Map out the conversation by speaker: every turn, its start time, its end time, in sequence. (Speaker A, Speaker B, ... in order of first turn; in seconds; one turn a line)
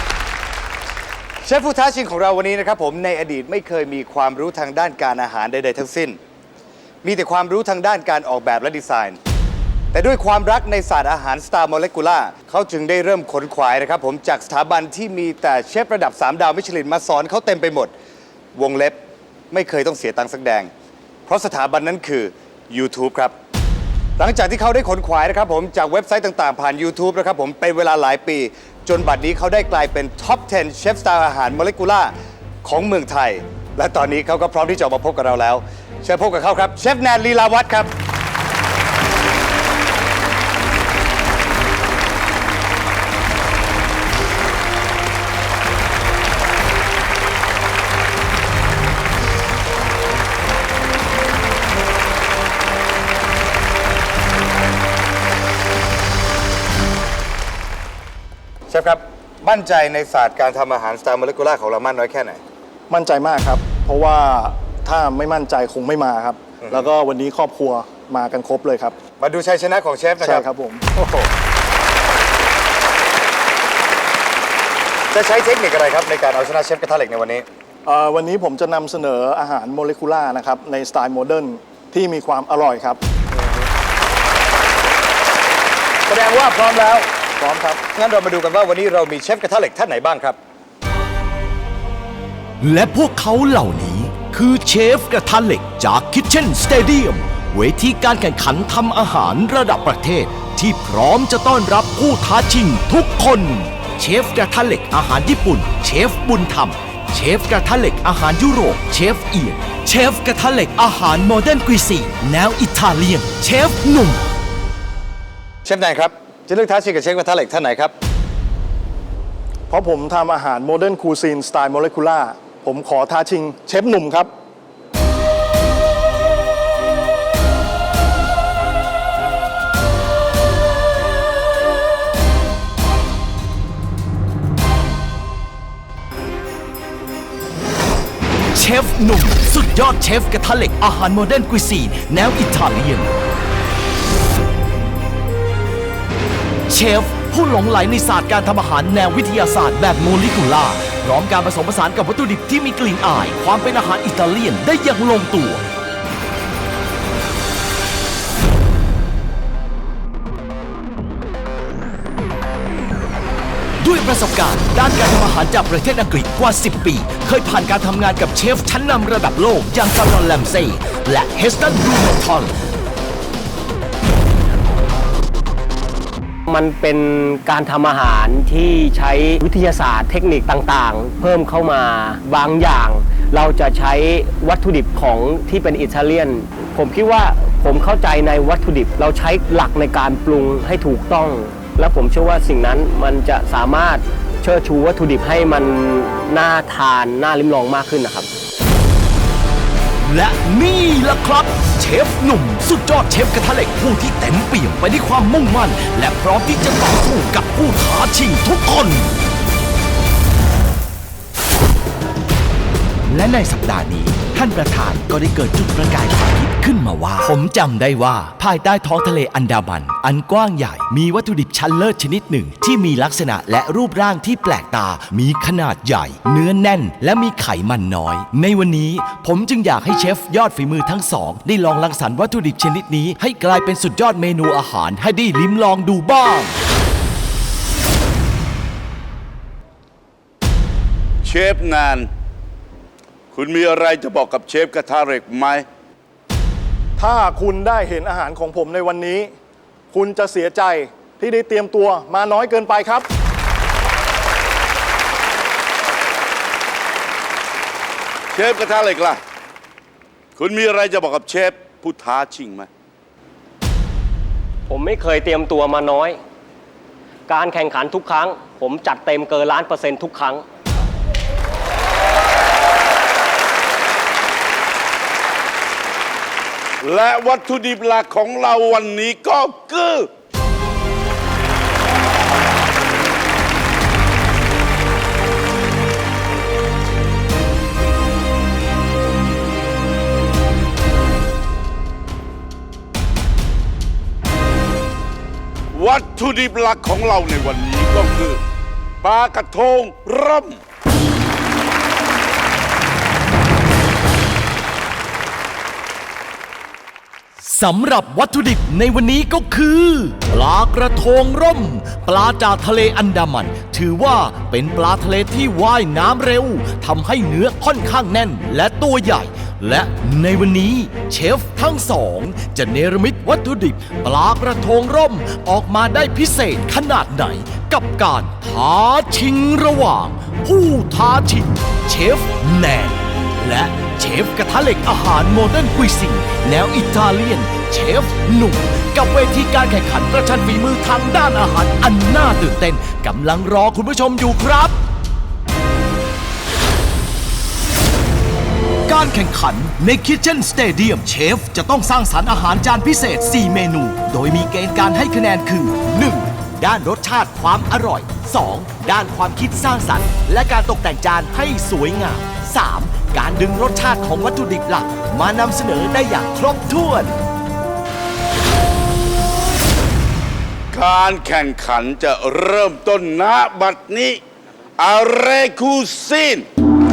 Speaker A: 1.4-6.2
Speaker A: 7.0-9.2
Speaker A: 9.9-17.9
Speaker A: 18.5-19.0
Speaker A: 19.5-20.7
Speaker A: 21.3-23.3
Speaker A: 24.2-37.9
Speaker A: 58.7-62.4
Speaker B: 62.9-69.0
Speaker A: 66.6-66.9
Speaker A: 69.2-71.3
Speaker B: 70.2-70.8
Speaker A: 75.1-77.4
Speaker B: 77.8-83.0
Speaker A: 86.1-87.1
Speaker B: 87.4-87.8
Speaker A: 87.9-90.4
Speaker C: 92.6-114.2
Speaker A: 115.6-117.9
Speaker B: 119.7-124.3
Speaker C: 138.5-143.1
Speaker C: 146.7-155.6
Speaker C: 163.8-172.5
Speaker D: 176.5-198.3
Speaker C: 200.0-209.1
Speaker C: 213.1-236.6
Speaker E: 241.2-242.1
Speaker E: 243.3-245.7
Speaker B: 247.0-249.3
Speaker B: 249.9-253.1
Speaker E: 258.3-259.2
Speaker E: 260.4-262.7
Speaker D: 264.7-266.2
Speaker D: 267.3-270.4
Speaker E: 276.8-280.1
Speaker E: 295.7-298.4
Speaker E: 299.0-300.6
Speaker C: 307.4-344.8
Speaker C: 348.9-367.2
Speaker E: 370.7-374.2
Speaker E: 374.8-376.5